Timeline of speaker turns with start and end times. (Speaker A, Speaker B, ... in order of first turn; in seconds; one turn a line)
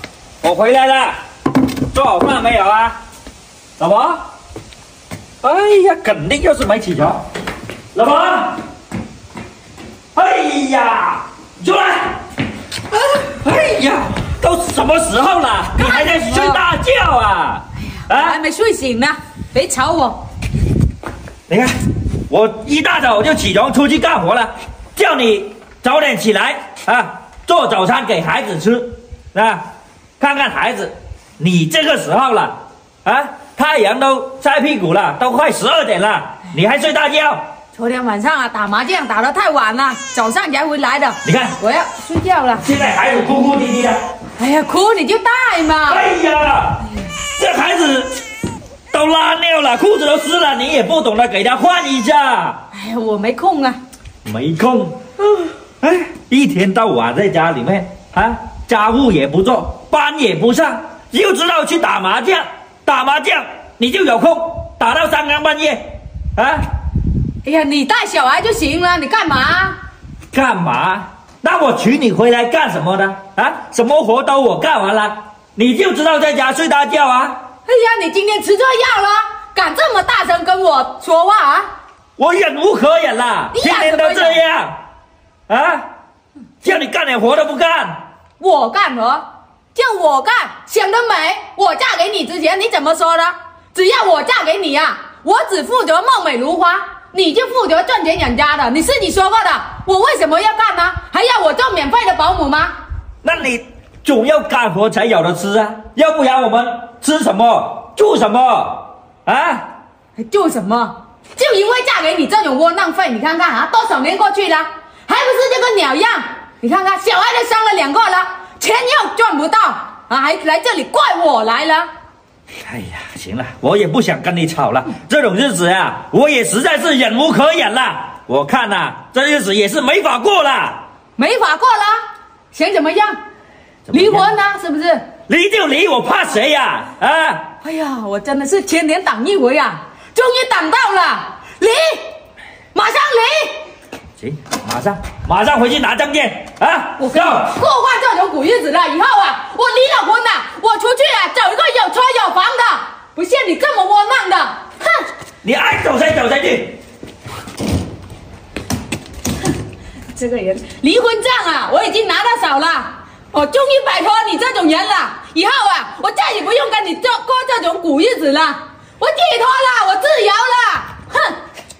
Speaker A: 0.4-1.1
Speaker A: 1.9-2.9
Speaker A: 3.8-4.2
Speaker A: 5.4-7.2
Speaker A: 7.9-8.6
Speaker A: 10.1-12.2
Speaker A: 12.9-18.4
Speaker B: 15.8-16.6
Speaker B: 17.9-20.2
Speaker A: 22.3-29.6
Speaker A: 30.2-37.4
Speaker B: 37.7-42.6
Speaker A: 41.2-41.6
Speaker A: 42.5-44.0
Speaker B: 44.4-46.0
Speaker A: 45.9-46.8
Speaker A: 47.3-48.1
Speaker A: 48.9-52.6
Speaker B: 52.7-53.8
Speaker A: 54.2-55.0
Speaker A: 55.8-65.8
Speaker A: 66.3-66.6
Speaker B: 67.4-69.8
Speaker A: 70.3-77.4
Speaker B: 77.7-81.7
Speaker A: 82.2-84.7
Speaker B: 83.5-84.4
Speaker A: 85.5-85.8
Speaker A: 86.6-88.0
Speaker B: 88.4-89.2
Speaker B: 89.7-102.8
Speaker A: 103.2-109.6
Speaker B: 110.2-121.9
Speaker A: 122.6-130.8
Speaker B: 131.2-132.0
Speaker B: 132.5-133.2
Speaker A: 133.9-134.3
Speaker B: 133.9-135.0
Speaker A: 135.3-137.4
Speaker B: 137.6-142.1
Speaker B: 142.7-143.6
Speaker A: 144.2-147.5
Speaker B: 147.0-154.7
Speaker A: 155.4-156.8
Speaker B: 160.1-171.3